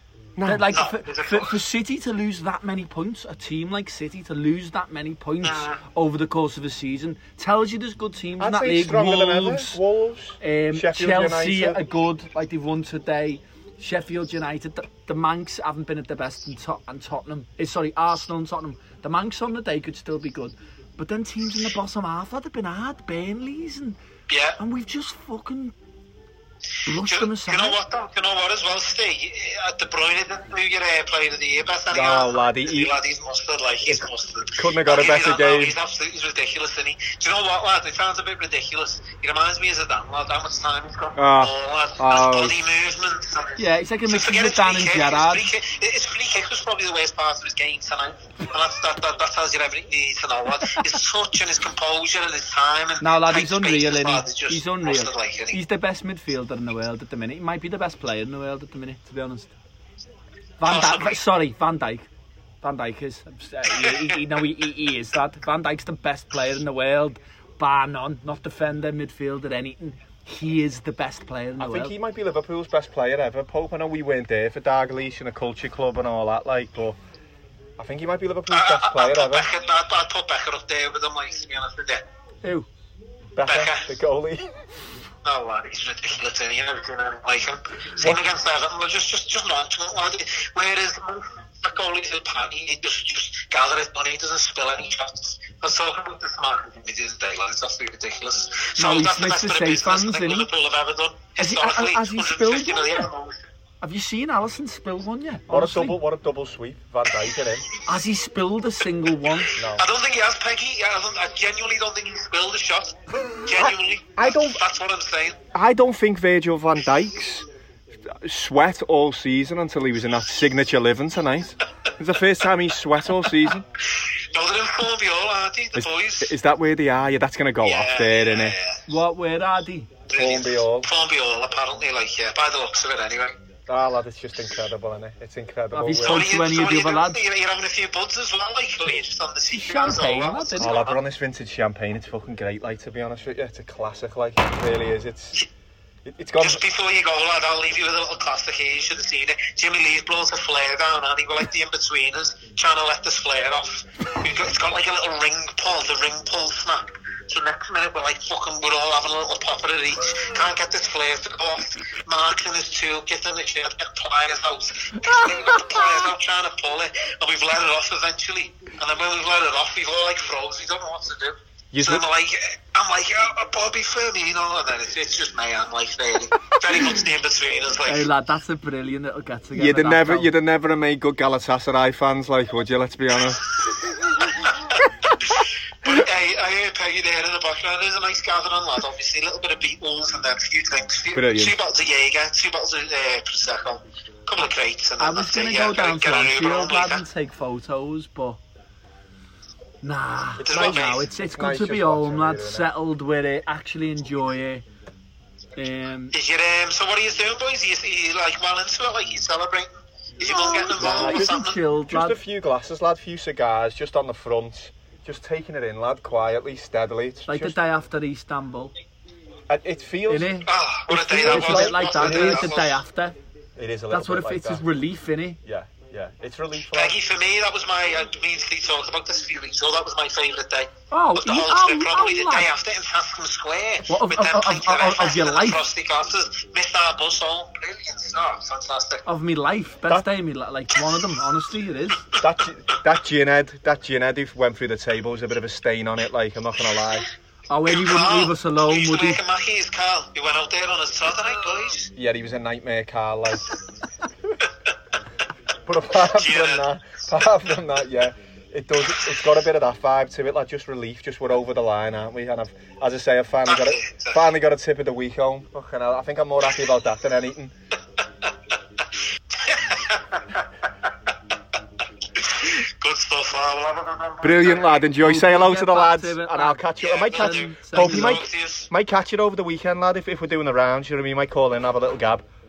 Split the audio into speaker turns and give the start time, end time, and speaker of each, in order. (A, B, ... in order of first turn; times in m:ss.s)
0:00.4-0:00.8 A
0:00.4-0:09.8 B
0:00.7-0:01.6 C
0:05.4-0:05.8 C
0:08.4-0:11.8 A
0:10.4-0:24.0 B
0:24.3-0:24.6 C
0:24.6-0:25.7 B
0:26.9-0:27.8 B
0:27.0-0:55.6 C
0:31.9-0:33.0 A
0:34.6-0:35.8 A
0:41.2-0:42.6 A
0:43.6-0:45.5 B
0:53.0-0:59.5 B
1:00.6-1:02.1 B
1:00.7-1:01.2 C
1:02.6-1:12.0 B
1:03.7-1:04.2 C
1:11.6-1:17.0 A
1:17.8-1:19.5 A
1:18.5-1:22.1 C
1:23.4-1:24.5 A
1:23.5-1:24.0 C
1:25.2-1:43.4 C
1:38.8-1:40.5 B
1:41.4-1:43.1 B
1:43.8-1:46.0 B
1:45.5-1:47.7 A
1:47.8-1:49.6 B
1:49.6-1:49.8 A
1:49.6-1:55.4 C
1:53.5-1:54.6 A
1:55.5-1:57.5 A
1:58.1-2:03.6 A
2:04.3-2:06.3 C
2:05.8-2:08.6 A
2:07.6-2:08.8 C
2:08.9-2:09.9 B
2:10.1-2:13.4 C
2:10.1-2:10.9 A
2:13.7-2:16.3 A
2:15.7-2:17.2 B
2:16.0-2:21.0 C
2:19.5-2:20.8 B
2:20.6-2:25.4 A
2:26.0-2:26.6 A
2:26.4-2:58.1 C
2:51.7-2:52.0 A
2:57.9-3:00.3 B
2:59.5-3:03.4 A
3:03.6-3:04.6 C
3:05.2-3:17.0 C
3:11.1-3:11.6 A
3:15.0-3:18.4 B
3:19.8-3:24.7 B
3:20.4-3:22.7 A
3:20.4-3:21.1 C
3:25.6-3:26.2 B
3:26.1-3:31.6 C
3:30.3-3:32.2 B
3:30.8-3:37.6 A
3:37.3-3:38.7 B
3:39.5-3:42.5 A
3:40.1-3:40.5 B
3:40.5-3:42.8 C
3:41.2-3:43.2 B
3:43.6-3:44.6 A
3:43.9-3:45.4 B
3:45.4-3:47.0 A
3:46.7-3:59.1 C
3:50.9-3:52.5 B
3:53.8-3:55.6 B
3:59.0-4:02.1 B
4:02.2-4:07.1 A
4:07.5-4:09.2 B
4:07.6-4:11.9 C
4:12.0-4:13.4 A
4:15.7-4:27.5 A
4:16.1-4:16.7 C
4:23.4-4:24.3 C
4:29.4-4:30.4 C
4:32.2-4:34.9 C
4:34.2-4:42.3 A
4:35.0-4:38.2 B
4:36.8-4:38.7 C